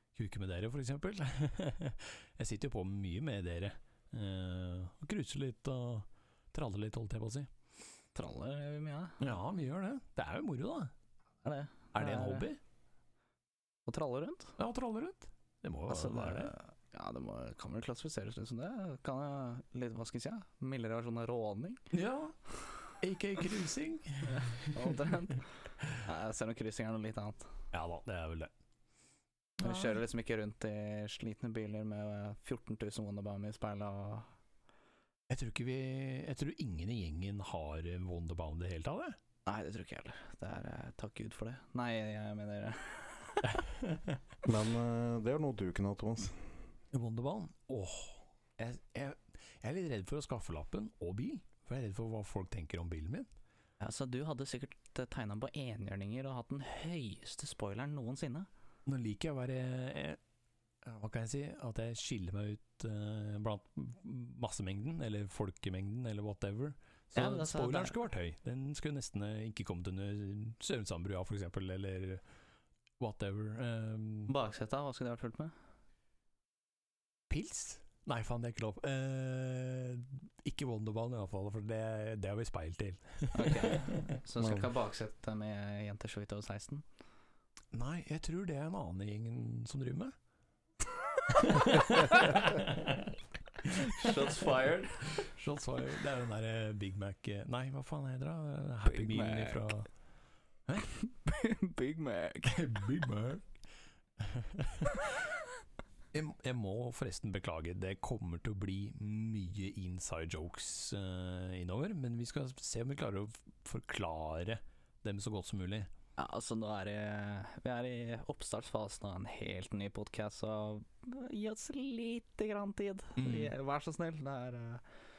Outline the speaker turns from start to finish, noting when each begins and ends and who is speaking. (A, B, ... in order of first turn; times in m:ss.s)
0:00.2-0:07.5 A
0:08.2-0:09.2 B
0:09.2-0:10.9 A
0:11.4-0:12.5 B
0:12.0-0:12.6 A
0:13.9-0:14.6 B
0:14.6-0:16.5 A
0:15.9-0:21.8 B
0:21.9-0:22.4 A
0:22.9-0:25.1 A
0:24.3-0:27.4 B
0:27.7-0:28.5 A
0:29.6-0:30.0 A
0:29.6-0:34.3 B
0:35.3-0:39.2 A
0:39.5-0:43.6 B
0:43.5-0:44.2 A
0:44.4-0:46.4 C
0:46.9-0:53.3 A
0:53.8-0:58.5 B
0:58.9-1:00.2 A
1:00.8-1:12.2 A
1:07.2-1:08.0 B
1:13.0-1:14.3 A
1:14.3-1:15.5 B
1:17.3-1:24.2 A
1:23.4-1:26.8 B
1:27.7-1:30.1 A
1:31.3-1:39.9 A
1:33.8-1:35.0 B
1:38.9-1:39.7 B
1:41.0-1:42.6 B
1:42.5-1:43.5 A
1:44.2-1:45.1 A
1:46.1-1:55.9 A
1:56.2-2:04.8 B
2:03.2-2:03.5 A